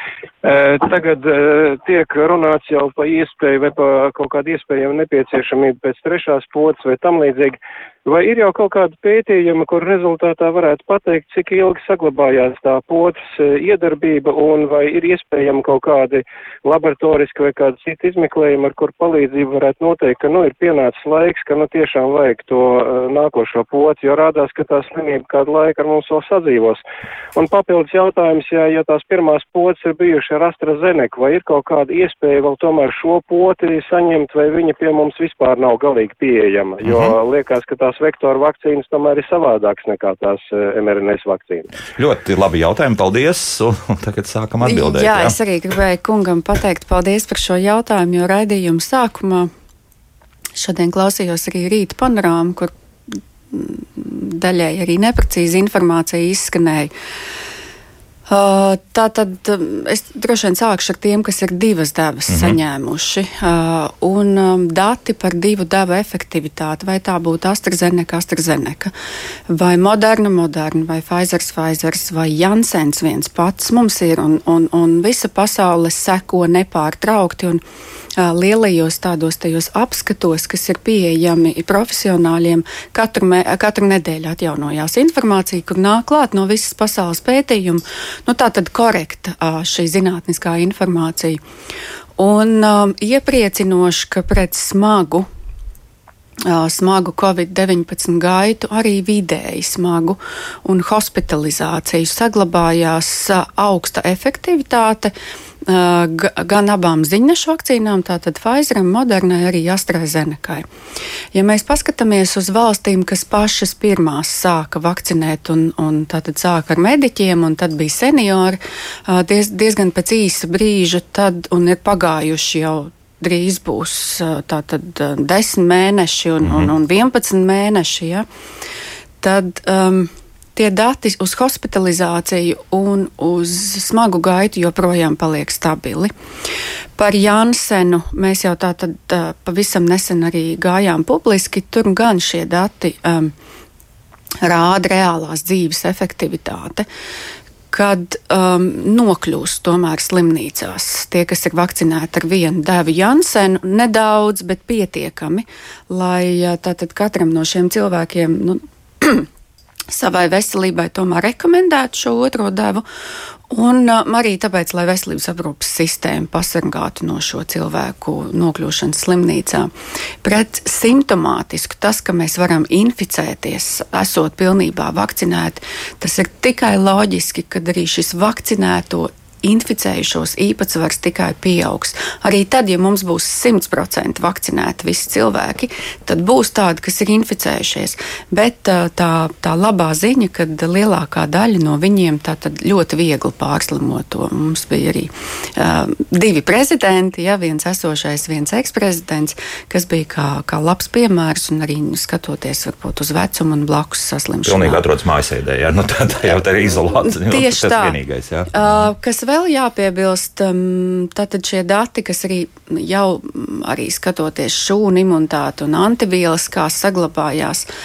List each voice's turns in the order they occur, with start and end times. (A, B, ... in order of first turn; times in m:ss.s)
0:00.4-0:26.8 A
0:27.4-0:41.7 A
0:36.8-0:37.2 B
0:42.0-0:45.4 B
0:44.6-0:49.5 C
0:50.6-0:56.9 C
0:58.3-1:08.9 C
1:02.3-1:02.6 B
1:09.5-1:17.6 C
1:18.2-1:31.4 C
1:32.2-1:35.3 C
1:36.5-1:45.1 C
1:45.7-1:50.7 C
1:51.3-2:08.3 C
2:06.4-2:06.7 B
2:09.2-2:16.1 C
2:17.0-2:23.3 C
2:24.4-2:26.9 C
2:27.7-2:39.3 C
2:39.9-2:42.8 C
2:43.5-2:49.7 C
2:50.2-3:24.8 C
3:24.4-3:28.9 B
3:26.9-3:28.0 C
3:28.5-3:37.7 C